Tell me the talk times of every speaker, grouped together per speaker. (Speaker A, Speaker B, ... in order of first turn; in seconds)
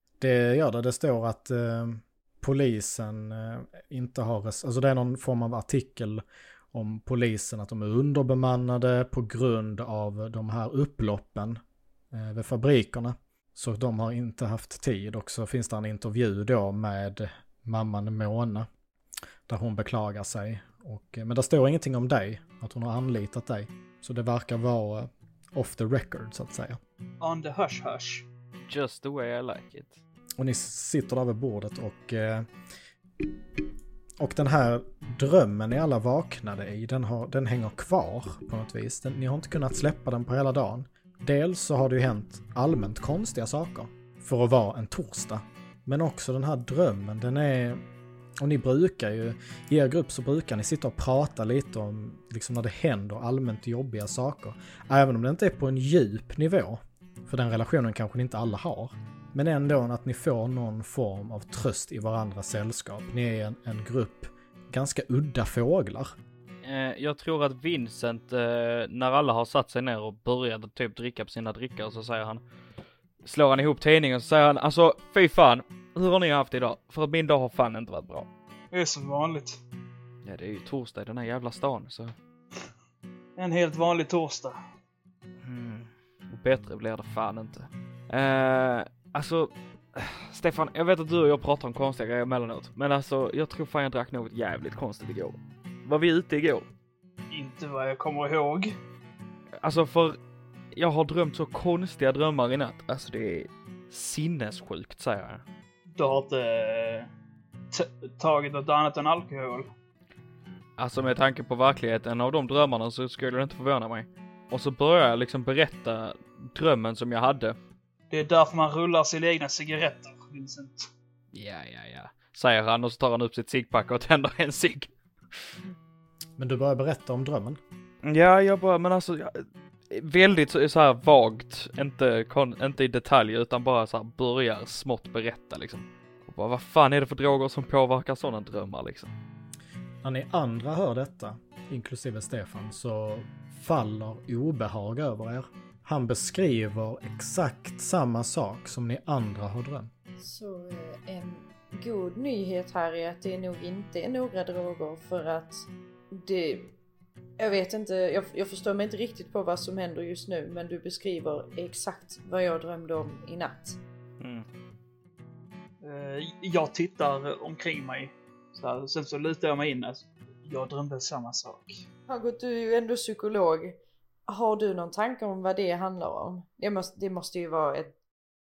Speaker A: 0.2-11.6, 12.1-18.7, 19.5-26.8, 30.4-32.5, 34.2-47.8, 48.4-66.1, 126.4-127.6, 140.0-149.9
Speaker B: 27.2-28.3, 78.7-79.6, 83.4-84.6, 97.3-98.7, 105.9-107.1, 107.7-109.7, 118.1-120.9, 165.8-171.8
Speaker C: 28.7-30.0, 66.6-72.4, 73.2-78.3, 80.2-82.1, 85.4-96.7, 99.6-100.2, 100.7-105.4, 110.8-117.6, 121.3-125.7, 128.0-139.1, 164.2-164.5
Speaker D: 150.2-156.8, 157.4-163.8, 172.1-173.8, 174.3-177.9